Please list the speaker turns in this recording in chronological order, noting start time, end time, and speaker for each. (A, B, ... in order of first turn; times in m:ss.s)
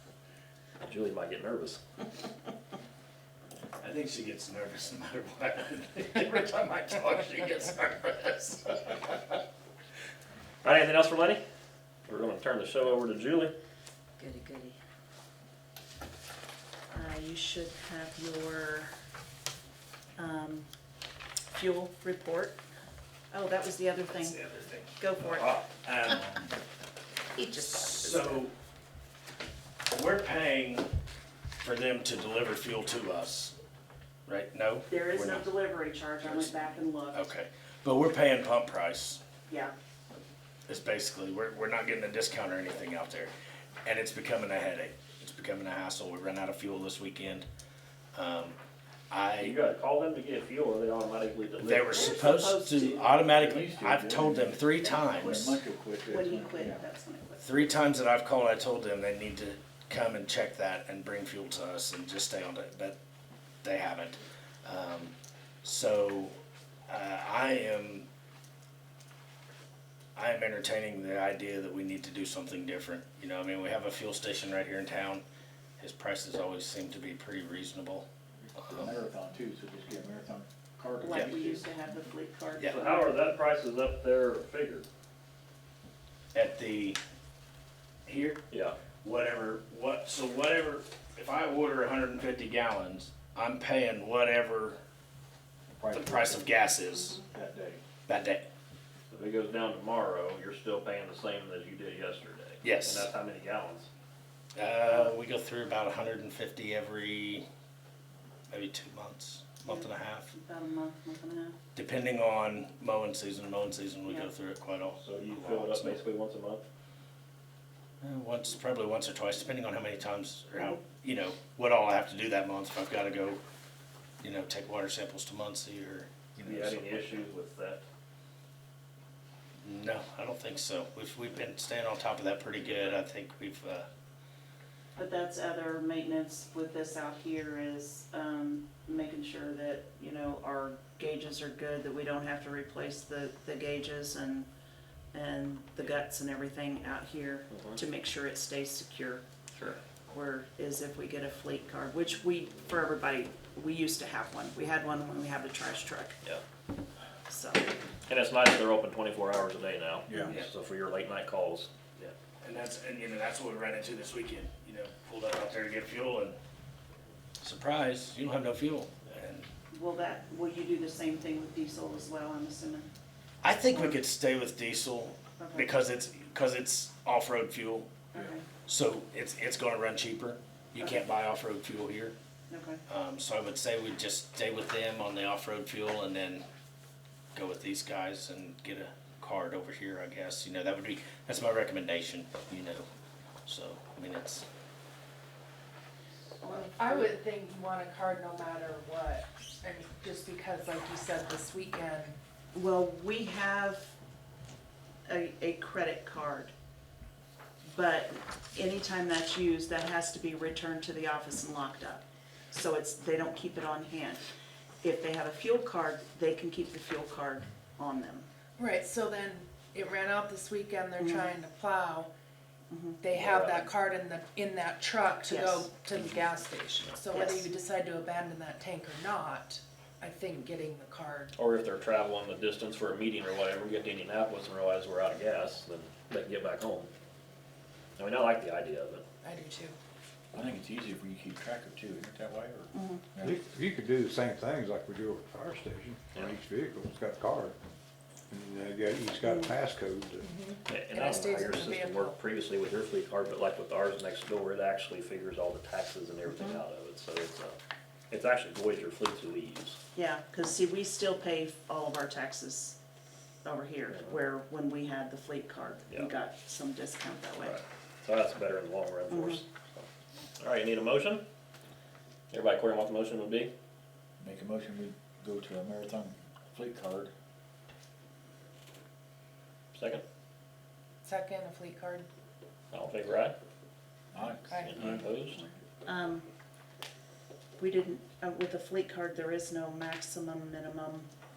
0:00.8-0:01.8 A
0:03.8-0:09.4 B
0:10.6-0:11.4 A
0:12.1-0:13.5 A
0:14.2-0:14.8 C
0:16.9-0:18.9 C
0:20.2-0:20.7 C
0:21.5-0:22.6 C
0:23.3-0:24.4 C
0:24.1-0:25.0 B
0:25.0-0:25.5 C
0:25.2-0:25.7 A
0:25.8-0:26.4 B
0:27.3-0:28.4 C
0:27.5-0:28.5 B
0:29.9-0:30.8 B
0:31.6-0:33.6 B
0:34.3-0:35.5 B
0:34.9-0:37.3 C
0:36.2-0:36.6 B
0:37.1-0:39.2 B
0:39.5-0:39.7 C
0:40.7-0:43.3 B
0:43.8-0:47.4 B
0:48.1-0:48.6 B
0:49.1-0:49.5 B
0:49.4-0:52.1 A
0:51.6-0:55.6 B
0:51.9-0:53.4 C
0:53.3-0:56.8 D
0:54.8-0:57.7 C
0:57.4-1:03.0 B
1:03.6-1:05.1 B
1:05.6-1:06.3 B
1:06.9-1:08.0 B
1:10.2-1:15.2 B
1:15.8-1:18.9 B
1:18.5-1:21.7 D
1:21.0-1:23.2 C
1:22.7-1:24.8 A
1:26.3-1:27.0 B
1:28.1-1:28.4 B
1:28.5-1:28.8 A
1:29.0-1:34.8 B
1:35.8-1:36.5 D
1:35.9-1:37.2 B
1:37.3-1:37.8 D
1:38.1-1:38.5 B
1:39.1-1:43.9 A
1:42.6-1:43.1 B
1:44.5-1:47.4 B
1:48.5-1:50.3 B
1:49.6-1:51.6 C
1:51.8-1:56.0 B
1:55.0-1:56.6 A
1:58.0-2:03.4 B
2:04.2-2:07.2 B
2:06.4-2:07.8 A
2:09.6-2:13.9 B
2:15.0-2:24.5 C
2:25.1-2:29.2 C
2:27.5-2:27.8 A
2:29.5-2:29.8 A
2:30.1-2:36.2 C
2:37.3-2:37.7 C
2:38.1-2:41.8 A
2:42.0-2:46.4 B
2:47.4-2:49.5 B
2:49.7-2:52.9 C
2:53.4-2:58.0 B
2:53.7-2:54.0 C
2:55.4-2:55.7 C
2:58.1-2:58.4 C
2:58.6-3:02.1 B
3:02.5-3:02.8 C
3:02.9-3:06.4 B
3:07.3-3:12.8 B
3:13.4-3:14.4 B
3:16.4-3:17.2 C
3:16.5-3:22.2 E
3:22.5-3:23.9 C
3:25.0-3:26.5 C
3:27.7-3:34.2 C
3:34.8-3:38.3 C
3:38.6-3:42.1 E
3:41.0-3:41.3 C
3:42.7-3:43.0 C
3:43.0-3:51.3 E
3:43.1-3:43.6 A
3:45.3-3:45.6 C
3:47.1-3:47.4 C
3:51.4-3:56.9 A
3:58.0-3:59.0 A
3:59.2-3:59.8 E
4:00.3-4:03.4 D
4:02.7-4:03.0 C
4:03.2-4:07.5 F
4:08.3-4:10.3 F
4:09.2-4:09.5 C
4:10.2-4:12.2 E
4:10.6-4:17.6 A
4:16.3-4:16.6 C
4:18.1-4:19.8 A
4:19.9-4:22.8 C
4:23.4-4:27.6 C
4:23.9-4:24.2 A
4:27.4-4:29.9 A
4:29.1-4:29.4 C
4:30.4-4:31.2 A
4:32.3-4:33.5 A
4:34.2-4:37.1 D
4:39.7-4:40.0 A
4:41.0-4:42.1 E
4:42.7-4:43.4 A
4:44.1-4:44.5 D
4:44.5-4:45.6 E
4:44.6-4:45.4 A
4:45.8-4:46.2 C
4:47.6-4:51.1 C